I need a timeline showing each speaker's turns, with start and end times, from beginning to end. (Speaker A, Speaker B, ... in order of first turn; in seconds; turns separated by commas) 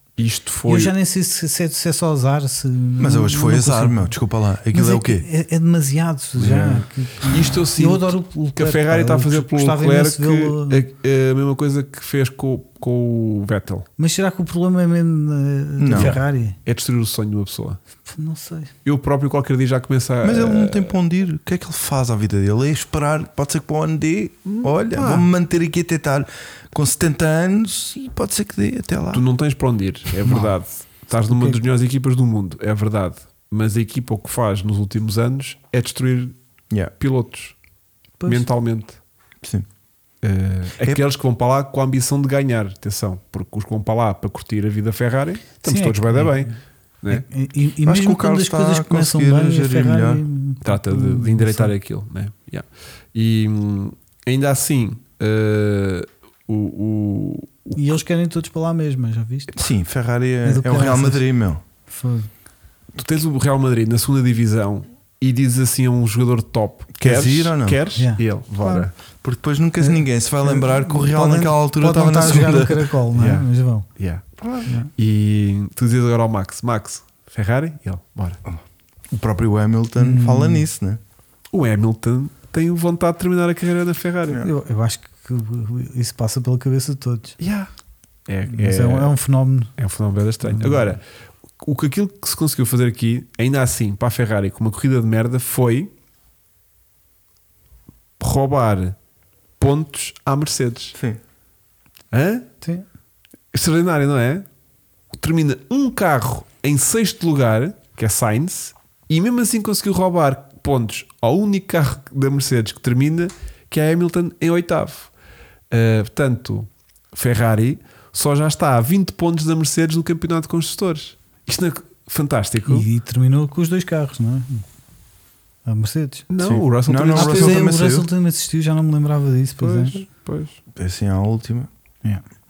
Speaker A: 0.2-0.9, Speaker B: 0.7-4.2, Speaker C: 3.0-5.2, Speaker B: 4.7-10.8, Speaker A: 6.4-13.9, Speaker B: 14.0-16.6, Speaker C: 15.8-16.2, Speaker A: 16.0-17.8, Speaker B: 18.1-18.7, Speaker A: 18.9-21.0, Speaker C: 20.2-29.2, Speaker A: 24.5-25.3, Speaker A: 29.1-36.4, Speaker B: 30.2-30.5, Speaker B: 31.3-31.6, Speaker A: 37.0-37.5, Speaker B: 38.2-38.5, Speaker A: 38.3-39.0, Speaker A: 40.2-47.2, Speaker B: 45.6-46.5, Speaker B: 47.1-51.7, Speaker C: 47.9-50.2, Speaker A: 50.6-58.0, Speaker B: 57.8-59.6, Speaker C: 59.5-61.6, Speaker B: 60.4-61.2, Speaker B: 61.9-62.3, Speaker A: 63.0-68.9, Speaker C: 67.0-67.8, Speaker B: 68.0-68.9, Speaker C: 69.2-72.9, Speaker B: 69.8-73.9, Speaker A: 73.1-73.5, Speaker A: 74.0-74.3, Speaker C: 74.4-74.7, Speaker A: 75.0-78.4, Speaker C: 79.1-81.0, Speaker B: 80.0-80.7, Speaker A: 81.5-84.4, Speaker B: 84.4-87.4, Speaker A: 87.4-87.7, Speaker A: 88.3-89.2, Speaker B: 88.5-89.7, Speaker A: 89.8-91.0, Speaker B: 90.4-91.0, Speaker A: 91.6-95.9, Speaker A: 98.2-99.0, Speaker A: 99.6-101.0, Speaker C: 101.0-101.2, Speaker A: 102.1-102.5, Speaker A: 103.5-104.5, Speaker A: 105.1-115.1, Speaker A: 115.7-122.9, Speaker B: 122.7-124.6, Speaker B: 125.7-126.3, Speaker A: 126.3-127.7, Speaker C: 126.4-128.1, Speaker B: 127.2-130.0, Speaker A: 129.6-130.6, Speaker C: 130.8-131.7